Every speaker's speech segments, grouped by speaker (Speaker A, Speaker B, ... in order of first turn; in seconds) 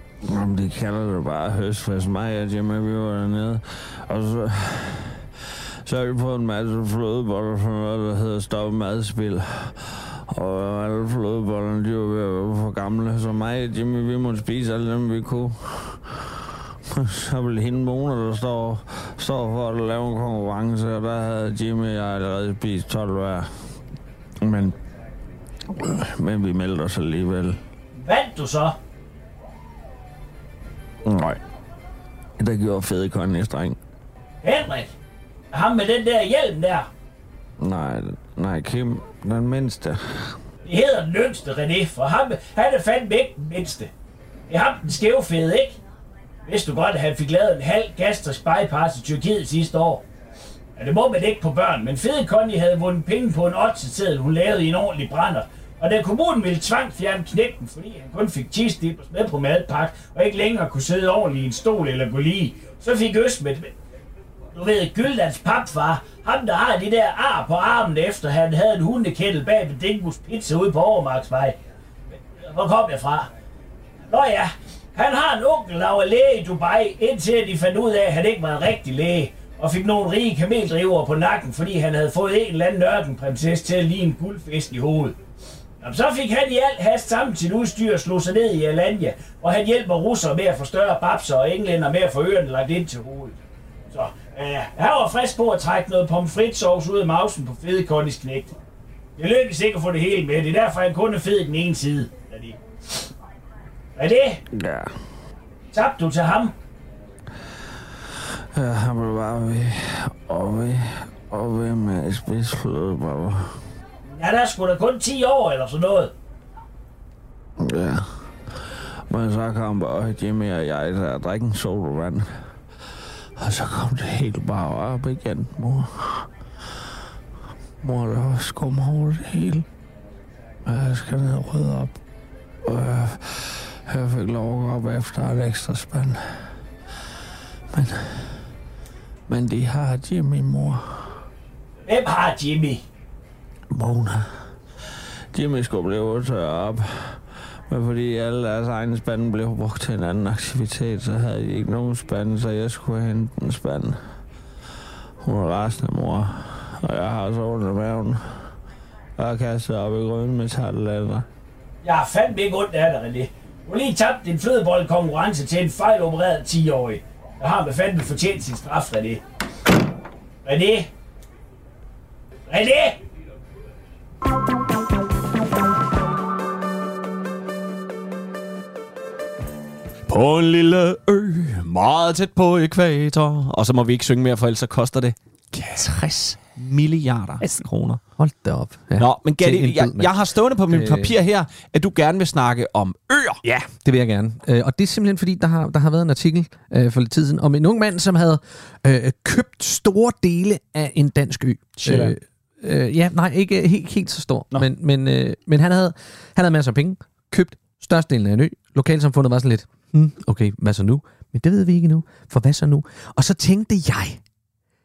Speaker A: 0.2-5.2, 5.8-16.2, 16.9-23.5, 24.4-24.7, 25.8-27.6, 31.0-31.4, 32.4-33.8, 37.6-40.3, 104.5-104.9, 108.5-113.5, 117.6-118.0, 119.1-122.2, 123.4-126.2, 127.8-129.6, 130.7-131.9, 132.6-136.2, 137.7-138.3, 139.3-140.8, 143.7-144.2, 145.3-154.0, 155.2-158.4, 159.2-161.2
Speaker B: 27.9-28.7, 34.4-34.9, 35.5-36.9, 40.6-43.9, 44.5-45.8, 46.5-50.0, 50.8-63.7, 64.5-71.5, 72.3-73.3, 74.1-85.1, 85.8-93.4, 93.9-98.5, 99.2-102.5, 104.0-104.4, 105.7-106.5, 114.1-116.1, 141.9-142.8, 161.8-169.2, 170.4-170.9, 172.5-173.0, 201.8-202.1
Speaker C: 180.1-188.0, 189.0-193.4
Speaker D: 188.2-190.1, 190.7-191.2, 193.4-214.2